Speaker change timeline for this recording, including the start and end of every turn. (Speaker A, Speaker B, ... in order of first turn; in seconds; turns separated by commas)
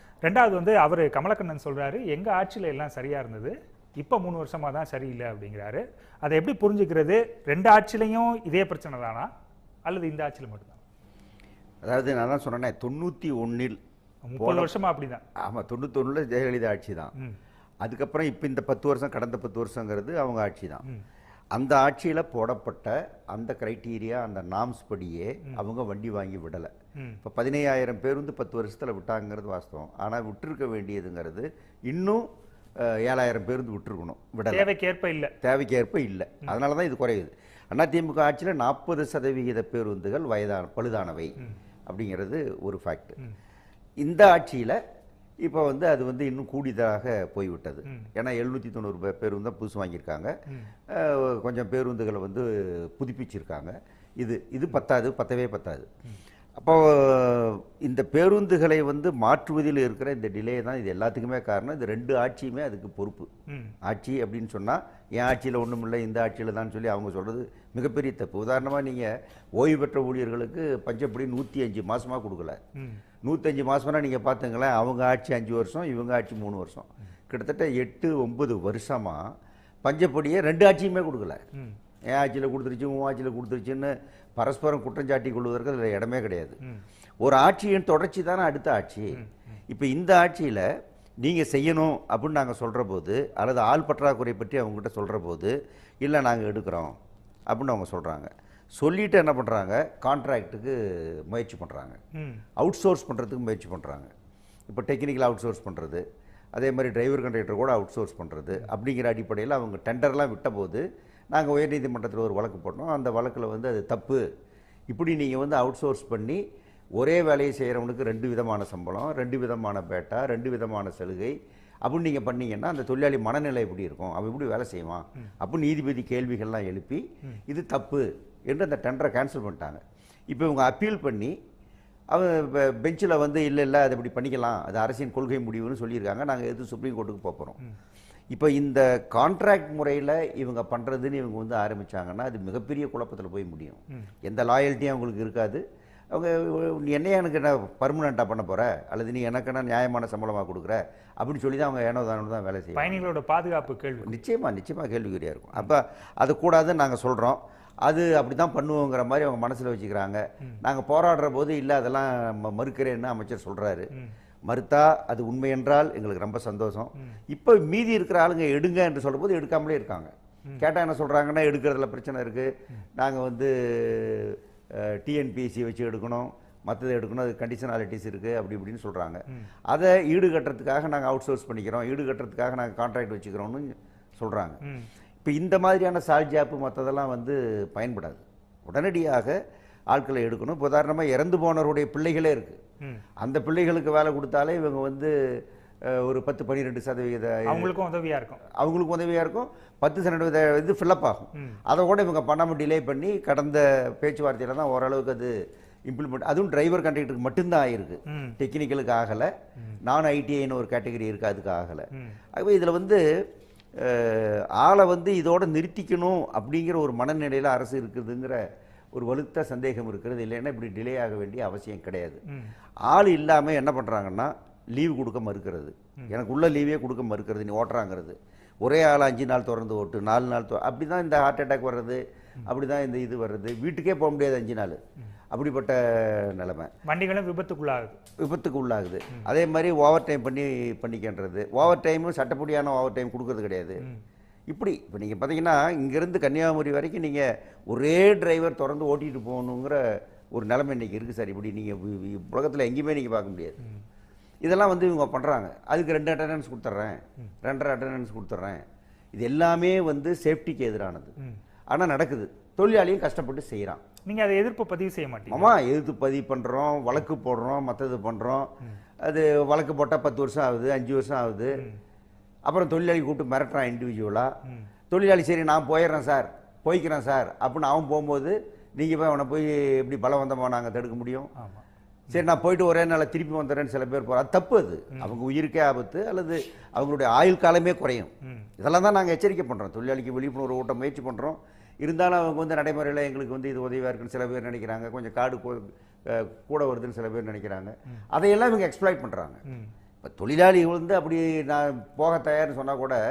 Speaker A: 0.2-9.3, Speaker A: 9.8-10.8, Speaker B: 11.8-13.8, Speaker A: 14.3-15.2, Speaker B: 14.4-14.7, Speaker B: 15.4-17.1, Speaker B: 17.8-20.8, Speaker B: 21.5-26.7, Speaker A: 26.9-27.2, Speaker B: 27.2-32.2, Speaker B: 32.8-34.7, Speaker A: 34.5-35.3, Speaker B: 35.4-41.3, Speaker B: 41.9-43.2, Speaker B: 44.0-44.8, Speaker B: 45.4-50.3, Speaker B: 50.9-55.9, Speaker B: 56.6-63.3, Speaker A: 63.5-63.7, Speaker B: 63.8-72.6, Speaker A: 72.8-73.0, Speaker B: 73.2-79.2, Speaker B: 79.8-81.4, Speaker B: 82.1-86.6, Speaker B: 87.2-90.7, Speaker B: 91.2-97.0, Speaker B: 97.5-102.0, Speaker A: 102.1-102.4, Speaker B: 102.6-104.1, Speaker B: 104.7-114.2, Speaker B: 114.9-116.4, Speaker B: 117.0-131.3, Speaker B: 132.1-137.6, Speaker B: 138.3-153.1, Speaker A: 152.8-154.2, Speaker B: 154.0-163.9, Speaker B: 164.5-184.6, Speaker A: 184.6-184.9, Speaker B: 185.2-189.3, Speaker B: 189.9-192.6, Speaker B: 193.2-197.7, Speaker A: 197.5-198.4, Speaker B: 198.5-205.3, Speaker B: 205.9-209.3, Speaker A: 208.1-208.4, Speaker B: 209.8-213.0, Speaker A: 211.9-212.2, Speaker B: 213.8-218.4, Speaker B: 218.9-222.2, Speaker A: 222.3-222.5, Speaker B: 222.8-234.8, Speaker B: 235.3-236.7, Speaker A: 236.9-238.0, Speaker B: 238.2-243.8, Speaker B: 244.5-249.8, Speaker B: 250.3-253.6, Speaker B: 254.4-258.6, Speaker B: 259.1-261.2, Speaker B: 261.7-263.8, Speaker A: 264.1-265.5, Speaker B: 265.3-268.5, Speaker B: 269.0-271.6, Speaker B: 272.4-274.3, Speaker B: 274.9-281.3, Speaker A: 281.4-282.1, Speaker B: 282.1-299.4, Speaker A: 288.2-288.5, Speaker B: 300.0-303.0